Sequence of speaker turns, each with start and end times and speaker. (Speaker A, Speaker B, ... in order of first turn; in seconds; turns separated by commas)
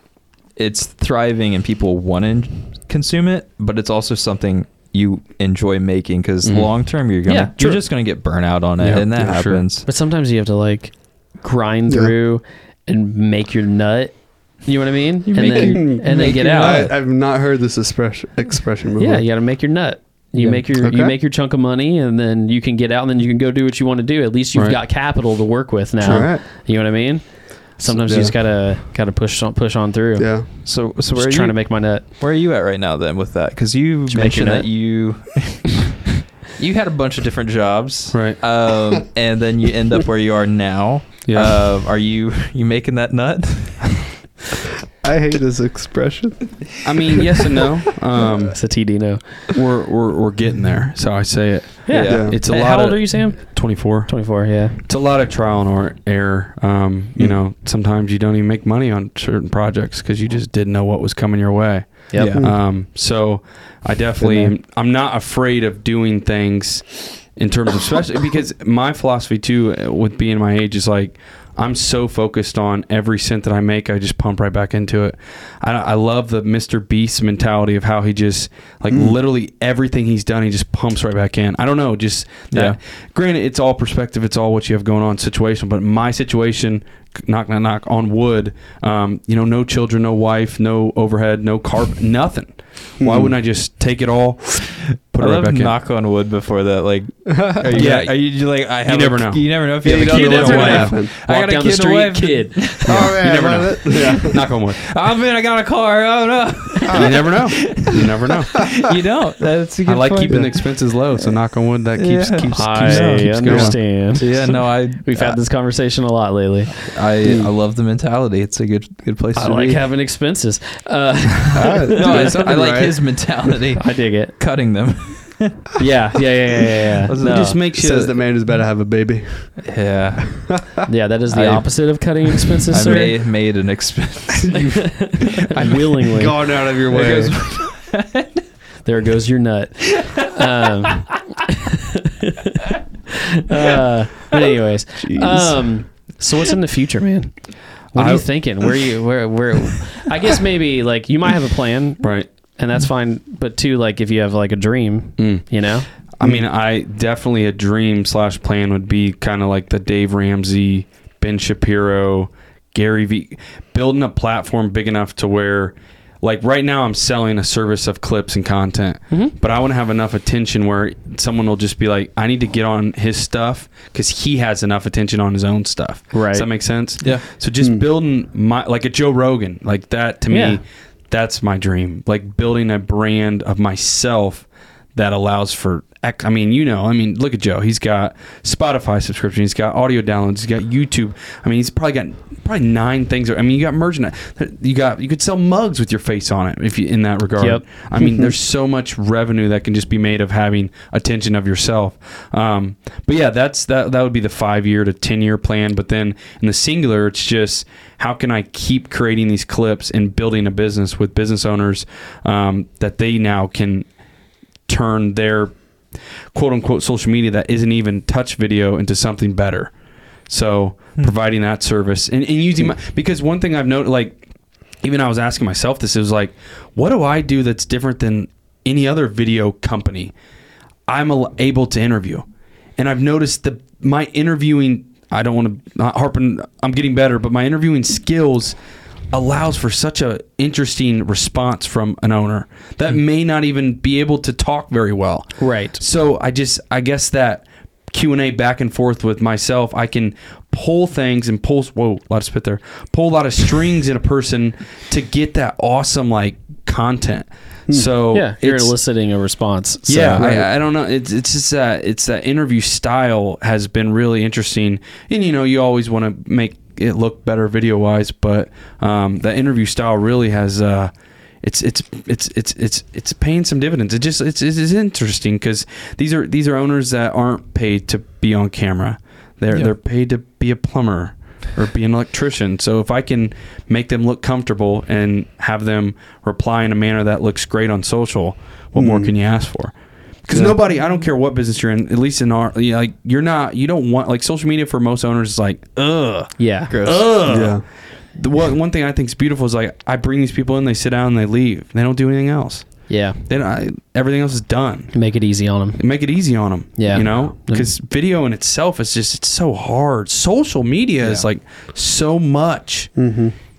Speaker A: 0.6-9.9, Speaker B: 6.4-6.7, Speaker C: 7.2-7.8, Speaker B: 8.8-9.6, Speaker C: 9.8-16.9, Speaker A: 15.3-16.7, Speaker D: 15.4-19.2, Speaker C: 19.0-32.0, Speaker D: 20.7-21.1, Speaker D: 26.0-26.4, Speaker D: 27.9-28.3, Speaker D: 30.2-30.5, Speaker A: 30.6-44.1, Speaker C: 34.1-34.7, Speaker B: 38.1-38.4, Speaker B: 41.3-41.5, Speaker D: 45.0-47.2, Speaker B: 46.8-48.6, Speaker C: 48.5-49.2, Speaker B: 49.5-95.8, Speaker C: 51.9-54.8, Speaker A: 51.9-52.3, Speaker D: 52.1-52.4, Speaker C: 62.1-62.4, Speaker A: 62.1-62.4, Speaker C: 64.2-64.5, Speaker D: 78.9-79.1, Speaker A: 82.5-82.8, Speaker D: 93.0-93.3, Speaker A: 94.8-103.1, Speaker D: 97.4-97.8, Speaker B: 97.7-100.9, Speaker C: 99.8-102.9, Speaker D: 99.8-101.1, Speaker D: 102.8-104.4, Speaker B: 102.8-104.8, Speaker A: 103.9-110.6, Speaker D: 106.9-107.3, Speaker B: 106.9-108.7, Speaker B: 109.8-113.8, Speaker D: 110.3-110.5, Speaker A: 112.0-115.4, Speaker C: 112.5-116.8, Speaker A: 116.8-119.8, Speaker D: 117.2-117.5, Speaker C: 119.3-122.3, Speaker D: 121.5-123.0, Speaker A: 121.9-125.8, Speaker C: 123.8-124.3, Speaker C: 125.8-127.5, Speaker A: 127.0-127.6, Speaker B: 127.2-128.2, Speaker D: 127.7-129.6, Speaker A: 129.6-130.6, Speaker D: 130.3-130.5, Speaker C: 130.9-133.2, Speaker A: 131.3-131.9, Speaker A: 132.7-135.8, Speaker C: 134.5-136.3, Speaker D: 136.1-137.4, Speaker A: 136.9-138.4, Speaker C: 138.8-142.8, Speaker A: 140.0-140.3, Speaker C: 143.4-147.3, Speaker D: 145.0-145.7, Speaker C: 147.9-155.9, Speaker B: 147.9-148.2, Speaker B: 152.0-152.3, Speaker B: 155.2-155.4, Speaker B: 156.1-213.9, Speaker C: 169.1-169.3, Speaker C: 176.1-176.5, Speaker C: 180.3-180.6, Speaker C: 197.4-197.6, Speaker D: 198.0-198.3, Speaker B: 214.7-215.7, Speaker B: 216.3-219.7, Speaker B: 220.3-224.2, Speaker B: 224.8-230.1, Speaker B: 230.9-232.2, Speaker B: 232.8-238.6, Speaker B: 239.1-258.7, Speaker C: 245.4-245.8, Speaker C: 258.1-260.4, Speaker B: 259.9-304.9, Speaker D: 288.8-289.1, Speaker C: 296.4-296.7, Speaker A: 296.7-297.1, Speaker D: 297.3-297.6, Speaker C: 302.9-303.2, Speaker C: 304.9-305.8, Speaker B: 305.8-312.9, Speaker C: 306.8-307.7, Speaker D: 312.9-313.3